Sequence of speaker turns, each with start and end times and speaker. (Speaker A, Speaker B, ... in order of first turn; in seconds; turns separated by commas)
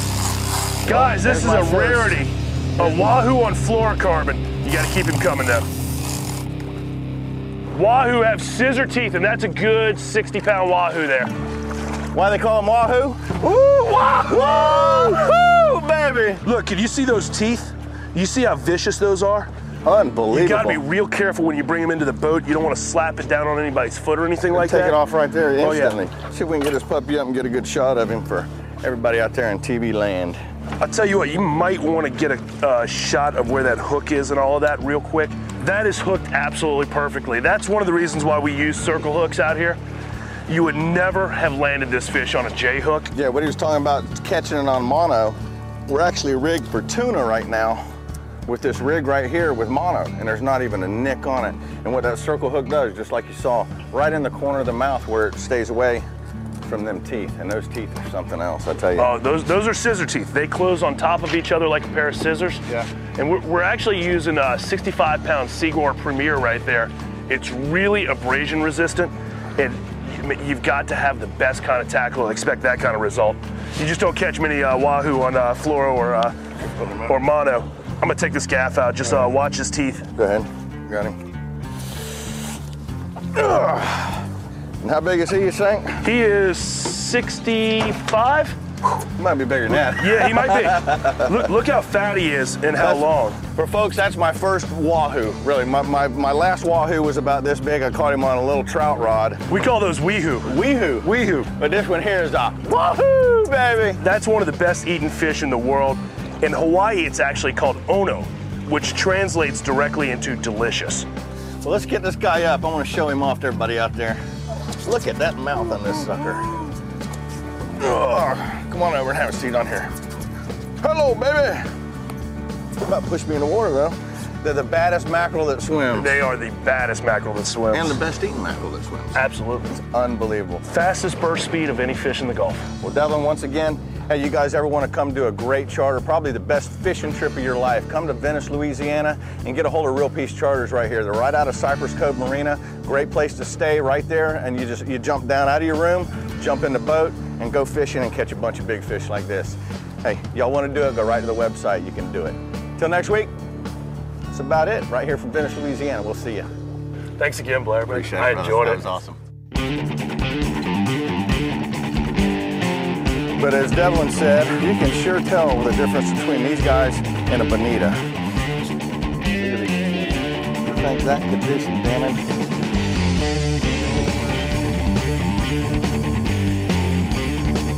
Speaker A: 0.8-2.2, Speaker B: 0.8-5.7, Speaker A: 2.8-3.1, Speaker B: 7.7-11.3, Speaker A: 12.1-16.4, Speaker B: 14.3-15.3, Speaker B: 16.4-19.5, Speaker A: 19.8-20.8, Speaker B: 20.3-25.0, Speaker A: 24.5-30.4, Speaker B: 25.6-26.0, Speaker B: 30.8-39.8, Speaker B: 40.5-43.1, Speaker A: 43.1-47.8, Speaker A: 48.5-56.1, Speaker A: 56.6-59.1, Speaker B: 59.0-62.6, Speaker B: 63.1-76.3, Speaker A: 76.8-77.2, Speaker B: 77.1-80.1, Speaker A: 80.2-81.2, Speaker A: 83.3-84.3, Speaker A: 84.8-86.0, Speaker B: 86.0-88.6, Speaker A: 88.9-91.4, Speaker B: 89.7-93.4, Speaker A: 92.8-99.4, Speaker B: 99.5-101.5, Speaker A: 100.4-104.0, Speaker B: 104.0-111.1, Speaker A: 111.6-114.2, Speaker A: 114.7-116.7, Speaker A: 117.8-119.9, Speaker A: 120.8-121.7, Speaker A: 122.8-126.2, Speaker B: 125.9-128.0, Speaker A: 127.7-129.2, Speaker B: 129.1-129.7, Speaker A: 129.7-130.6, Speaker B: 130.7-132.7, Speaker A: 132.8-153.3, Speaker A: 154.3-156.5, Speaker B: 157.2-158.9, Speaker A: 157.9-159.2, Speaker A: 163.4-168.0, Speaker A: 169.3-172.2